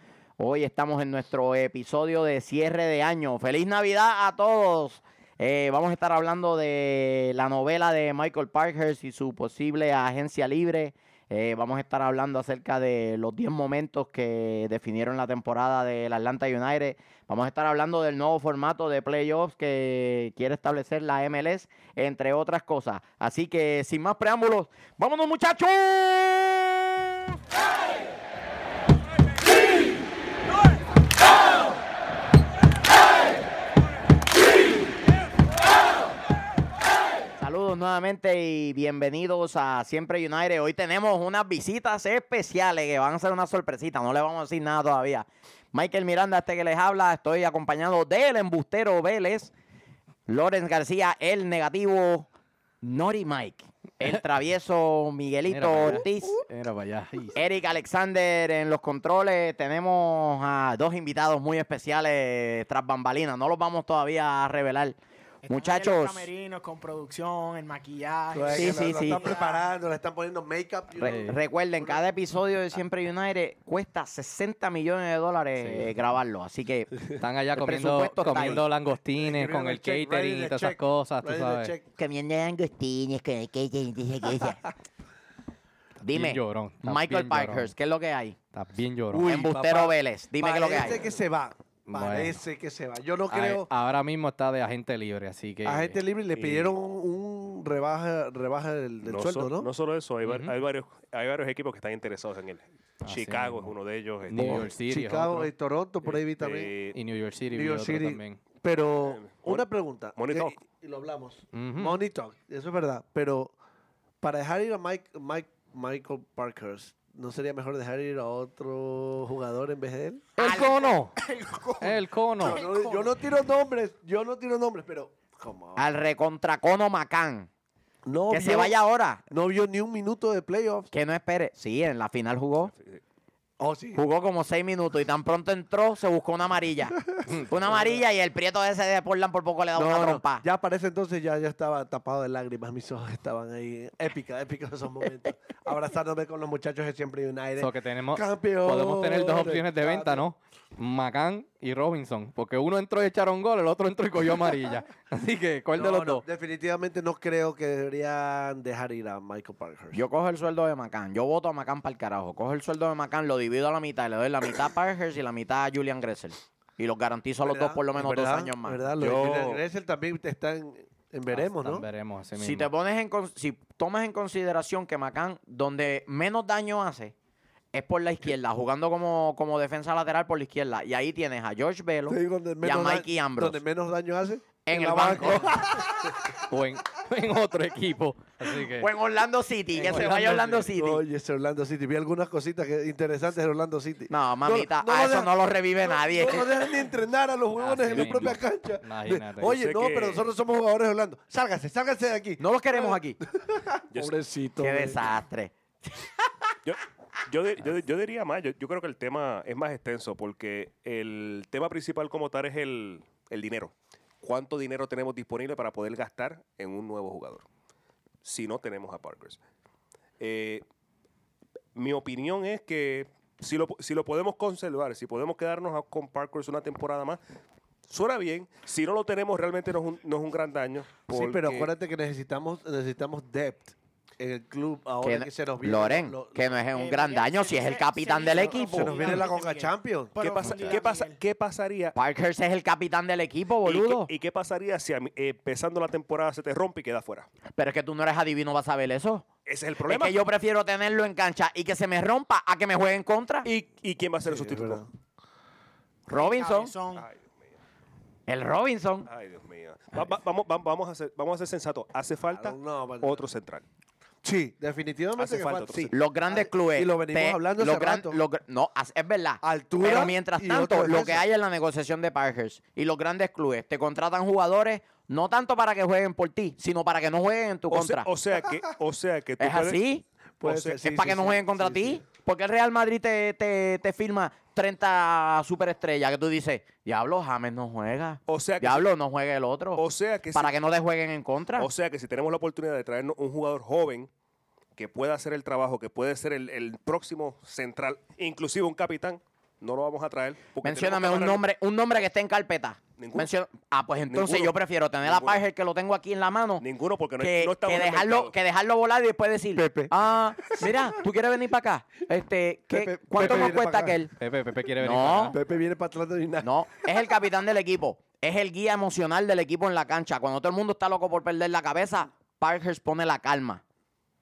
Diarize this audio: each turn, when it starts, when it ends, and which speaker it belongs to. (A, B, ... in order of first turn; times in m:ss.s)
0:00.4-0:27.1 A
0:37.4-0:49.5 A
0:50.3-0:52.3 A
0:52.8-0:56.4 A
0:55.5-0:57.4 B
0:57.3-1:05.0 A
1:05.4-1:09.6 C
1:05.5-1:06.3 A
1:08.3-1:12.0 D
1:08.5-1:09.3 A
1:11.0-1:17.0 A
1:11.0-1:11.3 B
1:15.6-1:15.9 B
1:17.2-1:21.7 B
1:17.5-1:18.6 A
1:18.2-1:18.5 D
1:19.2-1:21.8 D
1:22.0-1:24.6 A
1:26.0-1:28.4 A
1:26.1-1:27.7 B
1:28.5-1:29.3 B
1:29.1-1:33.7 D
1:29.2-1:31.0 A
1:31.9-1:32.4 B
1:33.3-1:36.0 B
1:35.6-1:39.7 D
1:36.3-1:36.7 E
1:39.0-1:44.7 E
1:40.2-1:40.5 B
1:43.0-1:43.7 B
1:44.3-1:45.5 B
1:44.4-1:46.7 D
1:46.1-1:47.0 E
1:46.9-1:48.4 B
1:47.5-1:53.5 D
1:49.0-1:50.6 E
1:51.5-1:52.0 B
1:54.2-2:00.3 D
2:00.4-2:01.1 B
2:00.4-2:03.1 C
2:01.8-2:02.6 B
2:02.4-2:05.8 D
2:05.8-2:07.5 A
2:08.0-2:08.8 D
2:08.3-2:09.2 A
2:09.3-2:10.9 D
2:10.9-2:12.7 A
2:12.6-2:13.0 E
2:13.6-2:14.0 D
2:13.9-2:20.4 A
2:17.1-2:17.9 D
2:19.7-2:30.2 D
2:27.6-2:36.2 B
2:35.8-2:40.0 D
2:39.9-2:48.8 A
2:47.4-2:51.8 D
2:49.0-2:49.6 E
2:51.3-2:52.7 B
2:52.4-2:57.1 A
2:57.7-3:03.6 A
3:02.1-3:06.1 D
3:04.6-3:06.1 A
3:06.4-3:08.9 B
3:08.8-3:11.0 A
3:09.7-3:25.0 D
3:09.8-3:10.7 B
3:14.1-3:16.6 A
3:17.6-3:19.6 B
3:17.9-3:18.4 E
3:19.4-3:20.2 E
3:22.4-3:23.2 A
3:23.9-3:24.2 E
3:24.6-3:26.1 A
3:26.6-3:37.4 E
3:38.2-3:39.4 E
3:40.2-3:40.6 E
3:41.7-3:47.2 E
3:47.9-3:51.7 E
3:51.1-3:56.6 D
3:55.0-3:59.0 A
3:56.7-4:01.2 C
3:58.3-4:00.2 D
4:00.2-4:01.9 E
4:00.4-4:00.7 B
4:01.9-4:04.1 A
4:03.6-4:07.3 E
4:07.6-4:09.3 A
4:09.4-4:10.2 E
4:09.8-4:13.5 A
4:13.4-4:14.8 E
4:14.2-4:14.9 D
4:16.1-4:16.7 A
4:16.1-4:17.1 C
4:16.9-4:17.5 E
4:18.3-4:19.1 A
4:19.0-4:23.6 E
4:22.3-4:23.2 D
4:24.2-4:28.2 D
4:25.1-4:25.9 E
4:25.9-4:38.1 A
4:29.4-4:31.2 D
4:37.7-4:39.8 E
4:39.4-4:40.0 A
4:40.4-4:42.0 D
4:40.4-4:40.9 E
4:40.8-4:51.7 A
4:48.3-4:48.9 E
4:49.7-4:50.6 E
4:51.6-4:54.1 E
4:54.8-5:01.4 E
5:00.6-5:06.6 A
5:03.0-5:03.3 E
5:04.1-5:05.4 E
5:06.6-5:08.3 E
5:07.2-5:14.1 A
5:09.5-5:09.9 D
5:12.7-5:14.0 D
5:13.2-5:13.5 B
5:14.2-5:15.4 B
5:14.8-5:15.4 A
5:15.3-5:16.5 D
5:16.4-5:23.6 A